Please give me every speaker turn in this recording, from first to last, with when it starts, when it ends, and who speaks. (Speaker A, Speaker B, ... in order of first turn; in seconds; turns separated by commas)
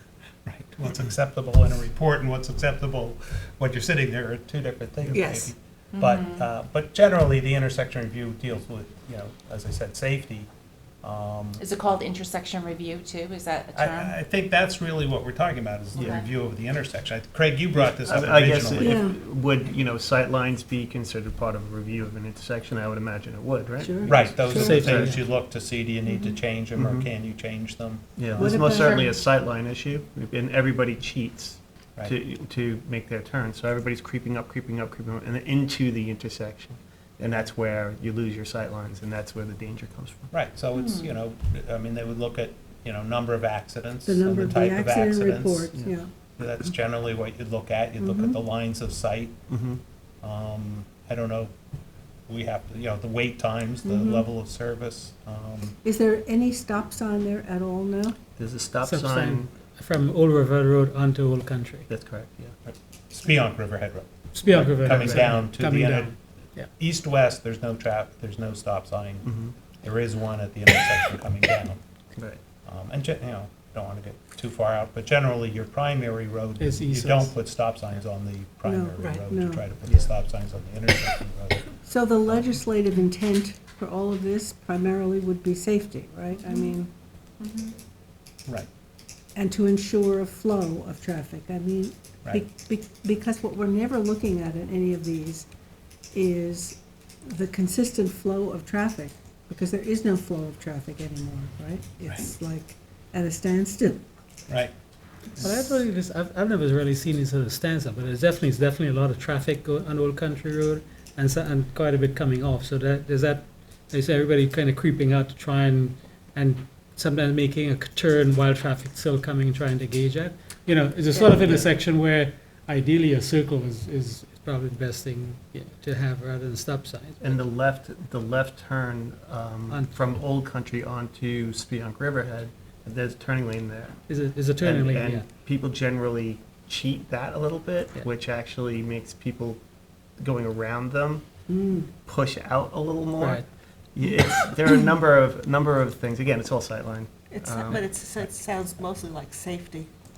Speaker A: 0.5-10.5, Speaker B: 5.1-5.5, Speaker C: 5.9-6.5, Speaker A: 11.0-11.6, Speaker C: 11.6-14.2, Speaker A: 13.7-19.0, Speaker C: 15.9-16.2, Speaker D: 17.7-25.1, Speaker E: 18.7-19.2, Speaker E: 23.8-24.9, Speaker A: 24.1-28.7, Speaker F: 24.5-25.2, Speaker E: 26.1-26.3, Speaker D: 26.8-27.1, Speaker D: 28.2-40.3, Speaker E: 28.3-29.2, Speaker A: 40.3-45.7, Speaker C: 40.7-41.1, Speaker E: 44.0-46.1, Speaker A: 46.4-49.4, Speaker E: 48.0-48.4, Speaker D: 49.5-49.8, Speaker A: 50.2-51.5, Speaker A: 52.3-55.8, Speaker E: 53.8-54.3, Speaker E: 55.8-58.2, Speaker D: 58.4-59.5, Speaker F: 58.8-61.9, Speaker D: 61.9-62.5, Speaker A: 62.6-66.1, Speaker F: 64.3-66.7, Speaker D: 64.5-65.2, Speaker A: 66.8-71.8, Speaker D: 69.2-69.5, Speaker A: 72.6-81.7, Speaker F: 76.6-77.4, Speaker E: 78.6-79.7, Speaker E: 81.8-86.9, Speaker C: 86.4-86.8, Speaker C: 87.4-87.8, Speaker E: 89.3-95.5, Speaker E: 96.1-104.0, Speaker A: 105.4-105.8, Speaker F: 105.4-127.2, Speaker D: 121.3-121.7, Speaker D: 127.2-134.0, Speaker F: 129.7-130.0, Speaker F: 134.1-135.3, Speaker D: 134.6-139.6, Speaker D: 140.2-141.2, Speaker E: 141.5-141.9, Speaker D: 142.0-143.4, Speaker F: 143.2-143.4, Speaker D: 143.9-147.9, Speaker B: 147.3-149.9